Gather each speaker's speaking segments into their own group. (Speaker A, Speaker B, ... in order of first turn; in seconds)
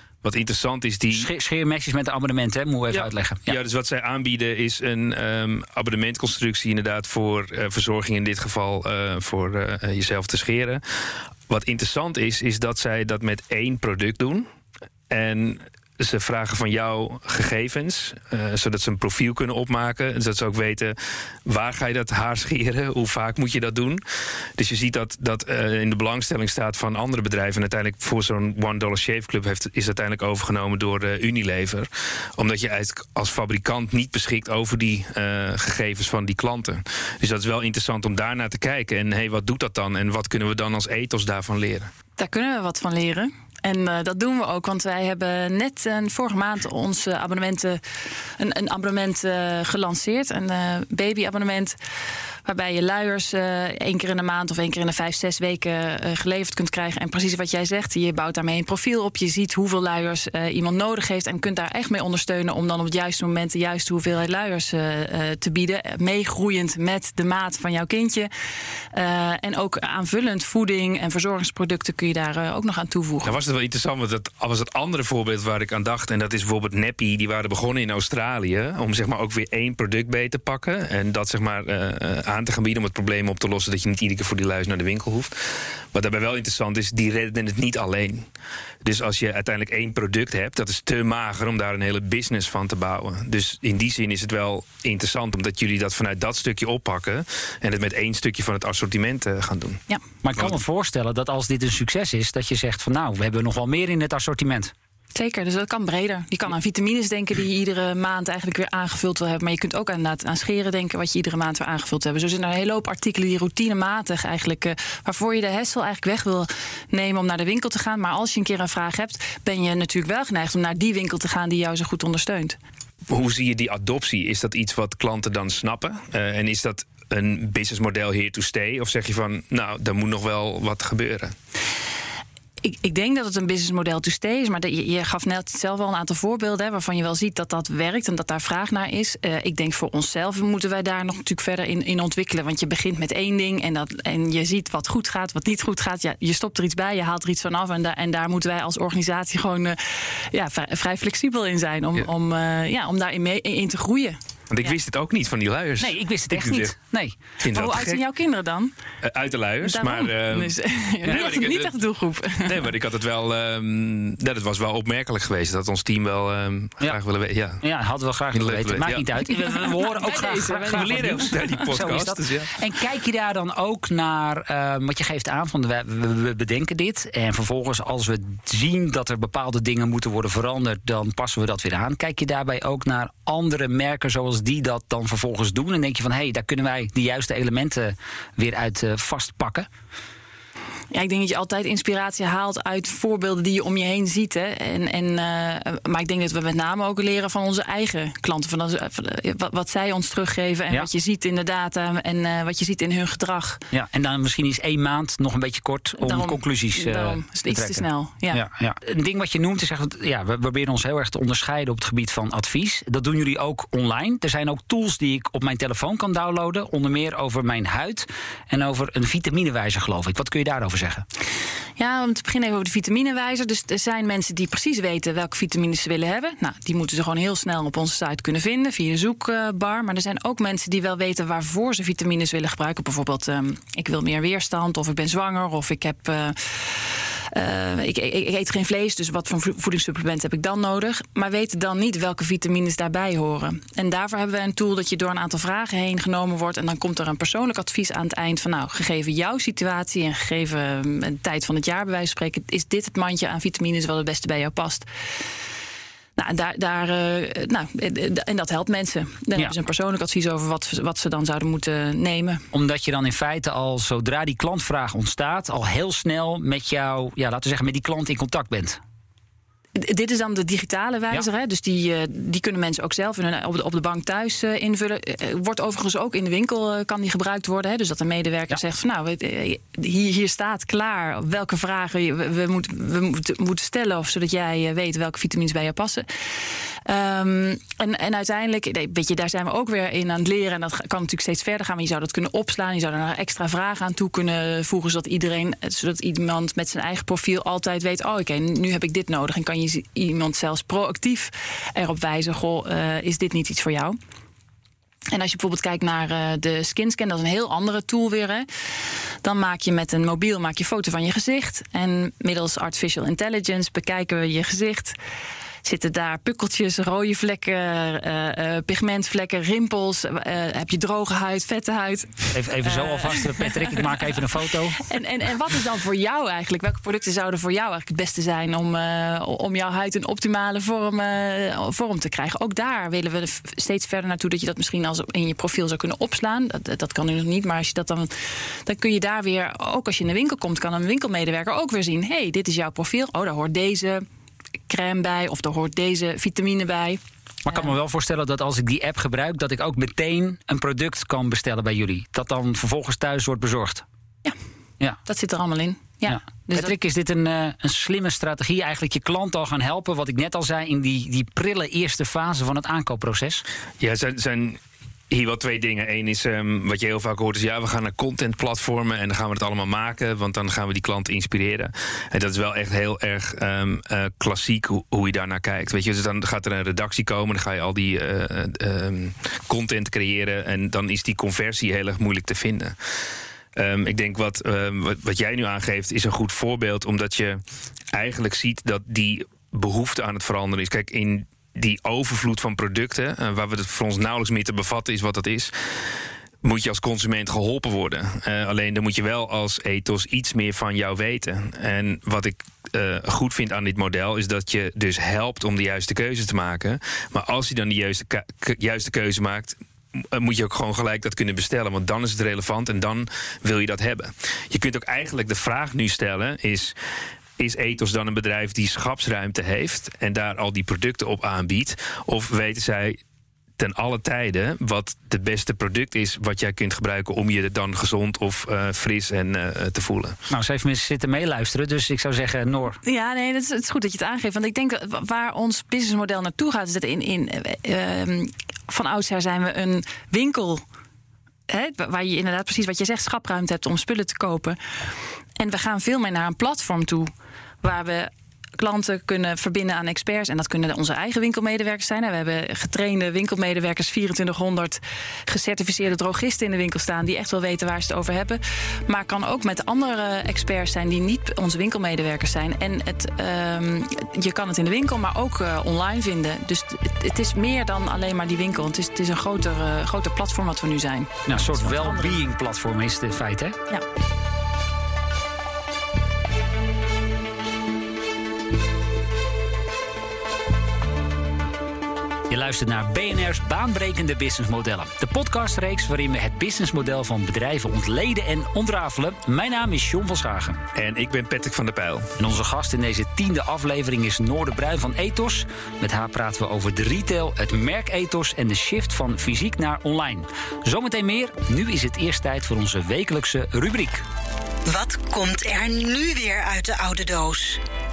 Speaker A: 0.2-1.3, 2.9-10.8, 11.5-14.5, 15.1-24.0, 24.6-41.9, 73.2-85.4, 85.9-88.3, 88.8-99.8, 123.1-131.3, 154.5-156.7, 157.4-158.0, 159.0-161.8, 162.3-167.6, 168.3-169.1, 170.7-172.5, 363.8-382.8, 383.6-387.4, 387.9-395.5, 396.4-416.7, 417.4-423.0, 423.6-430.2, 490.7-492.1
Speaker B: 1.1-3.6, 100.2-104.7, 155.8-157.2, 167.6-189.7, 203.7-221.1, 262.5-268.8, 322.3-324.8, 347.4-353.8, 356.1-363.4, 430.3-432.8, 471.3-473.6, 482.3-490.6, 492.2-504.1
Speaker C: 42.2-47.8, 48.4-51.8, 52.5-68.3, 68.9-73.4, 105.2-122.6, 132.6-154.2, 157.5-158.8, 159.6-162.7, 169.7-171.3, 190.9-203.6, 206.0-208.4, 221.8-254.9, 256.2-262.5, 269.8-286.1, 286.9-304.0, 305.1-308.5, 309.2-315.0, 315.6-323.9, 324.8-344.0, 344.7-347.0, 355.1-356.7, 432.8-440.6, 441.5-444.6, 445.4-472.2
Speaker D: 504.6-507.6